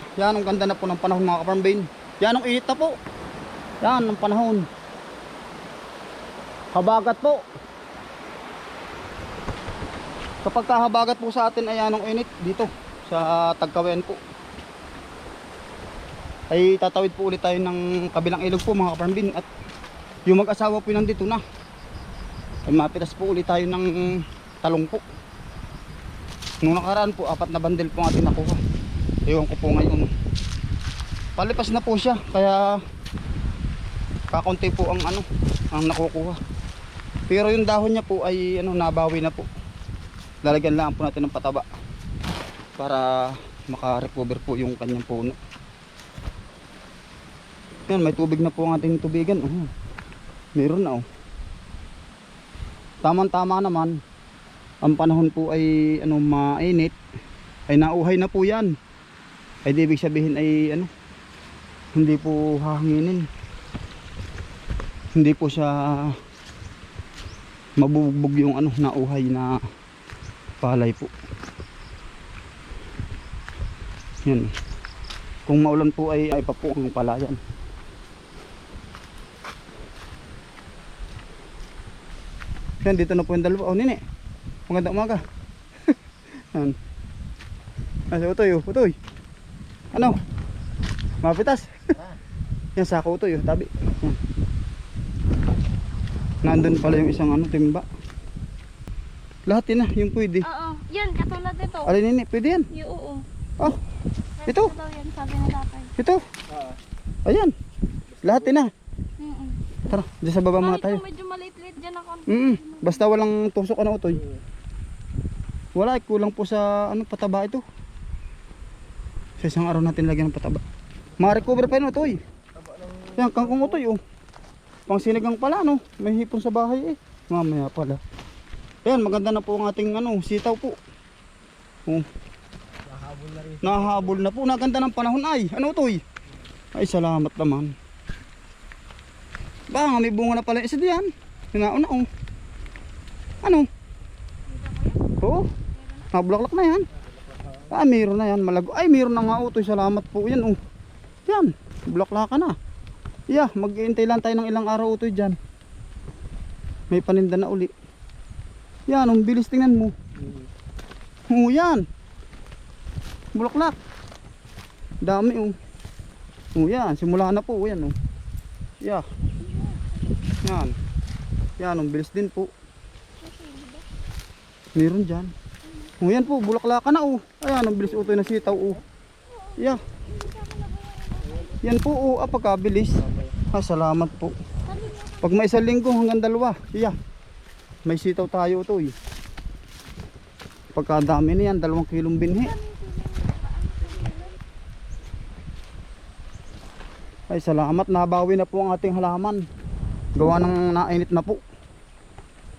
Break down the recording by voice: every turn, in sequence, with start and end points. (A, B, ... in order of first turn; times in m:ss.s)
0:00.2-0:02.9 A
0:03.8-0:04.6 A
0:06.7-0:07.4 A
0:10.4-0:14.2 A
0:16.5-0:19.4 A
0:20.2-0:21.4 A
0:22.6-0:25.0 A
0:26.6-0:28.6 A
0:29.3-0:30.1 A
0:31.4-0:32.8 A
0:34.3-0:36.4 A
0:37.3-0:39.5 A
0:40.4-0:41.7 A
0:42.8-0:45.4 A
0:47.9-0:49.7 A
0:50.6-0:51.0 A
0:53.0-0:54.0 A
0:54.8-0:56.9 A
0:57.7-0:58.7 A
0:59.6-1:00.9 A
1:01.9-1:03.3 A
1:05.1-1:06.2 A
1:07.8-1:09.6 A
1:10.6-1:11.1 A
1:14.2-1:14.5 A
1:15.4-1:17.4 A
1:22.8-1:24.0 A
1:24.7-1:25.2 A
1:28.1-1:29.0 A
1:29.9-1:30.2 A
1:31.2-1:31.7 A
1:32.8-1:34.2 A
1:36.4-1:37.8 A
1:39.4-1:40.5 A
1:40.4-1:41.9 B
1:41.8-1:42.7 A
1:42.7-1:43.2 B
1:44.4-1:45.9 B
1:44.4-1:44.7 A
1:46.0-1:46.2 A
1:46.5-1:46.8 C
1:47.2-1:47.5 A
1:48.2-1:48.5 C
1:48.2-1:48.7 A
1:49.2-1:49.6 B
1:49.8-1:51.0 A
1:50.6-1:53.0 B
1:52.3-1:54.2 A
1:55.7-1:57.6 A
1:59.4-2:00.6 A
2:01.2-2:02.2 A
2:02.5-2:03.8 C
2:03.2-2:04.0 A
2:04.9-2:08.0 A
2:08.8-2:10.8 A
2:12.8-2:14.2 C
2:13.6-2:16.0 A
2:16.7-2:17.7 A
2:19.7-2:22.1 A
2:23.4-2:23.7 A
2:24.5-2:25.0 B
2:25.2-2:25.5 A
2:25.8-2:26.0 B
2:26.1-2:26.9 A
2:27.2-2:27.7 C
2:27.7-2:30.6 A
2:31.2-2:32.6 A
2:33.3-2:35.4 A
2:36.9-2:37.7 A
2:38.9-2:39.9 A
2:40.2-2:40.5 C
2:41.3-2:41.8 A
2:43.3-2:43.8 A
2:45.0-2:45.6 A
2:46.5-2:47.9 A
2:48.8-2:49.0 A
2:49.4-2:50.2 B
2:50.4-2:50.8 A
2:51.6-2:52.5 A
2:53.2-2:53.8 B
2:54.7-2:55.3 A
2:56.0-2:58.8 A
2:58.0-2:58.8 C
2:59.3-3:01.6 B
2:59.6-2:59.8 A
3:01.3-3:01.6 C
3:01.6-3:03.0 A
3:03.0-3:03.4 C
3:03.5-3:04.3 A
3:04.7-3:05.2 B
3:05.2-3:07.0 A
3:07.8-3:08.9 A
3:10.7-3:12.6 A
3:12.4-3:14.3 B
3:17.3-3:19.4 A
3:20.1-3:21.4 A